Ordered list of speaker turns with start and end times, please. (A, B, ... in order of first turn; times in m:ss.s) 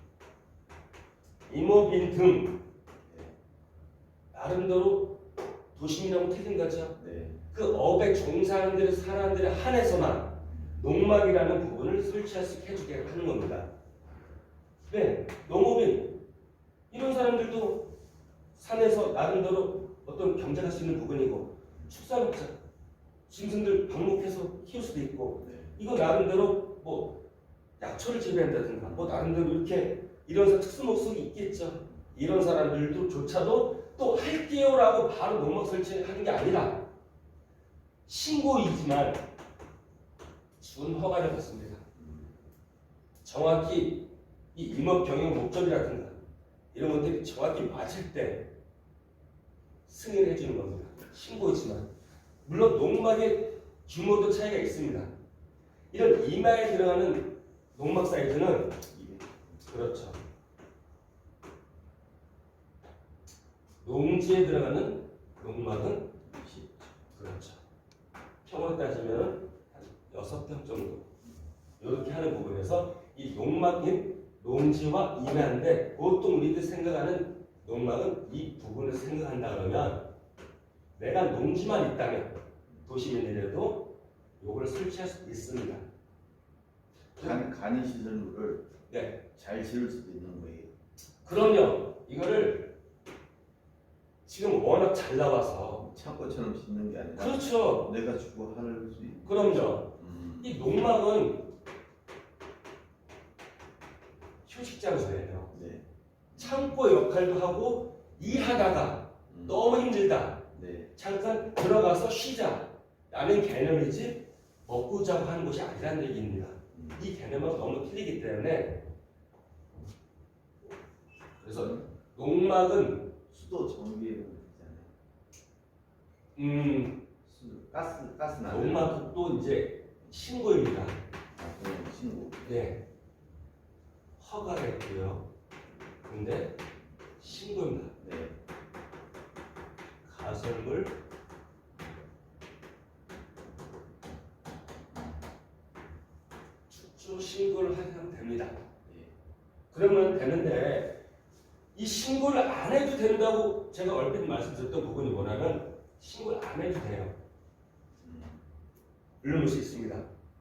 0:01.5-0:02.7 A
0:03.0-0:03.4 B
0:04.3-0:13.7 A
0:07.0-0:07.4 B
0:14.9-0:16.2 A
0:16.9-0:17.9 A
0:18.6-0:22.6 A
0:23.3-0:27.2 A
0:25.4-0:25.7 B
0:27.8-0:36.9 A
0:28.8-0:29.2 B
0:38.1-0:39.3 A
0:40.6-0:41.8 A
0:43.2-0:46.2 A
0:46.7-0:48.5 A
0:49.9-0:51.9 A
0:52.4-0:55.1 A
0:55.9-0:58.8 A
0:58.9-0:59.6 B
0:59.7-1:00.2 A
1:03.8-1:06.2 A
1:06.2-1:07.0 B
1:07.2-1:07.6 A
1:08.4-1:11.1 A
1:11.8-1:20.1 A
1:21.0-1:25.8 A
1:27.2-1:28.7 B
1:28.9-1:29.2 A
1:29.4-1:30.7 B
1:31.2-1:32.8 A
1:34.3-1:35.9 A
1:35.8-1:40.6 B
1:37.2-1:37.9 A
1:39.2-1:41.5 A
1:44.5-1:45.5 A
1:45.5-1:46.7 B
1:46.4-1:58.9 A
1:49.3-1:49.7 B
1:50.5-1:50.9 B
1:56.7-1:57.0 B
2:01.4-2:03.2 A
2:03.3-2:04.9 B
2:06.4-2:07.1 A
2:07.3-2:09.0 B
2:08.4-2:11.0 A
2:11.4-2:12.5 B
2:12.4-2:12.9 A
2:14.2-2:15.3 A
2:16.1-2:16.6 A
2:17.2-2:18.0 A
2:18.0-2:18.4 B
2:20.0-2:21.0 A
2:26.7-2:28.6 A
2:28.9-2:29.1 B
2:29.7-2:31.0 A
2:31.8-2:37.2 A
2:38.0-2:38.4 B
2:39.2-2:40.1 A